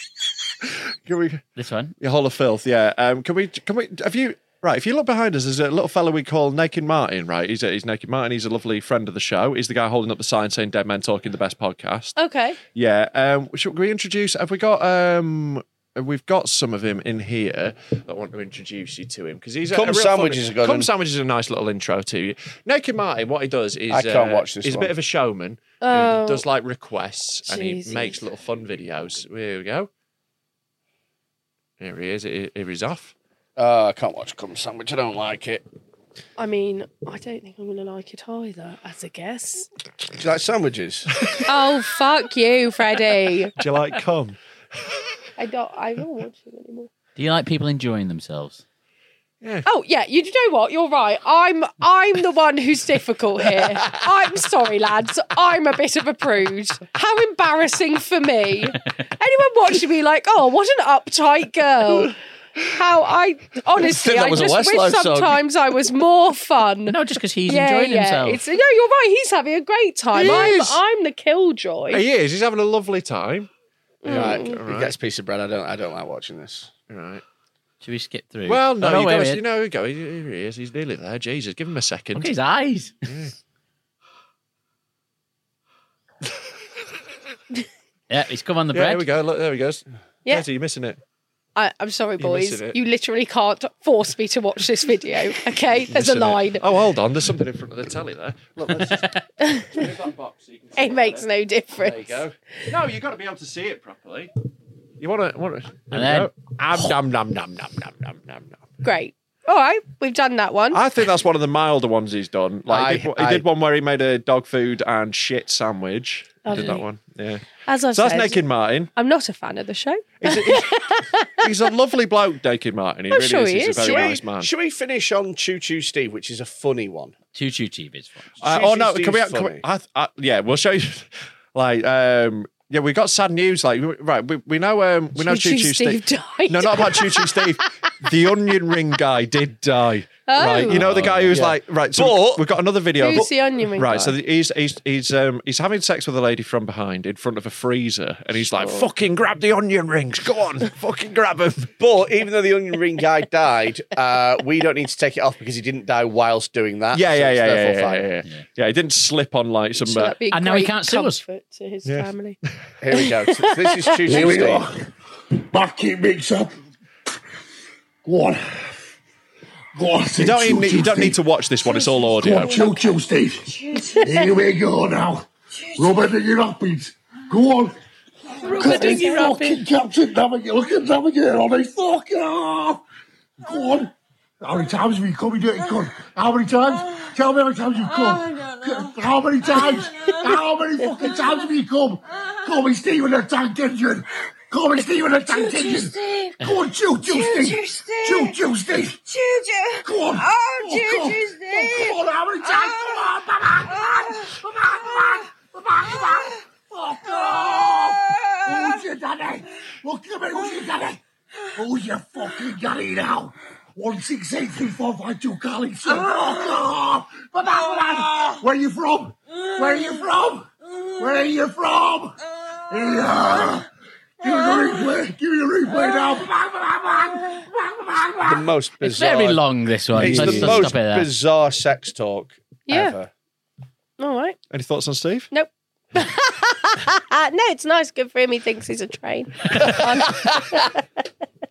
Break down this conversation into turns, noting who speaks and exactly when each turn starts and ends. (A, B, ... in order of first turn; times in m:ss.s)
0:01.1-0:01.4 A
0:01.6-0:01.9 B
0:02.0-0:12.2 A
0:12.2-0:12.6 C
0:12.7-0:29.9 A
0:19.7-0:20.9 D
0:23.9-0:24.9 D
0:25.8-0:26.4 C
0:27.4-0:28.2 C
0:31.8-0:33.1 A
0:33.6-0:35.6 D
0:36.4-0:39.7 C
0:40.1-0:41.1 D
0:41.4-0:43.5 C
0:43.6-0:44.4 A
0:45.4-0:46.9 C
0:47.2-0:48.6 B
0:49.6-1:02.2 C
1:02.7-1:12.0 C
1:03.8-1:05.4 D
1:06.9-1:08.4 B
1:10.2-1:10.8 A
1:11.9-1:13.5 A
1:14.0-1:14.6 C
1:14.1-1:14.9 A
1:14.1-1:16.7 D
1:16.9-1:17.2 A
1:17.8-1:19.4 B
1:18.5-1:22.3 A
1:22.2-1:23.1 B
1:23.1-1:23.3 A
1:28.1-1:29.0 B
1:28.7-1:31.0 A
1:31.6-1:36.6 C
1:32.2-1:32.8 A
1:35.9-1:41.3 A
1:39.4-1:39.9 C
1:40.8-1:42.2 C
1:41.8-1:44.3 A
1:45.0-1:48.6 A
1:45.9-1:46.3 B
1:48.8-1:50.8 C
1:50.7-1:58.9 A
1:52.7-1:53.4 D
1:56.4-1:56.8 C
1:57.6-1:58.4 C
1:59.0-2:01.5 C
2:00.2-2:00.8 A
2:01.4-2:04.5 A
2:03.1-2:04.2 C
2:03.8-2:07.2 D
2:07.3-2:08.3 B
2:08.4-2:09.6 D
2:08.4-2:31.7 A
2:15.2-2:17.5 C
2:20.3-2:20.9 C
2:20.8-2:21.3 B
2:21.3-2:22.5 D
2:23.0-2:24.2 C
2:28.6-2:28.9 C
2:31.8-2:38.1 D
2:36.9-2:40.2 A
2:39.8-2:42.4 C
2:40.3-2:41.2 B
2:42.8-2:44.6 D
2:43.0-2:44.2 C
2:44.0-2:46.5 E
2:48.0-2:48.8 E
2:49.8-2:51.2 E
2:50.2-2:52.6 A
2:52.2-2:57.7 E
2:58.4-2:59.6 B
2:58.5-3:02.8 E
2:58.6-2:59.2 C
3:03.4-3:19.2 E
3:19.8-3:31.0 E
3:31.5-3:42.2 E
3:42.7-3:43.7 E
3:44.2-3:48.5 E
3:48.3-3:49.4 D
3:48.8-3:51.1 B
3:50.0-3:53.1 D
3:50.0-3:50.7 A
3:52.7-3:53.0 C
3:54.0-3:54.4 C
3:54.5-3:55.3 A
3:55.3-4:00.8 C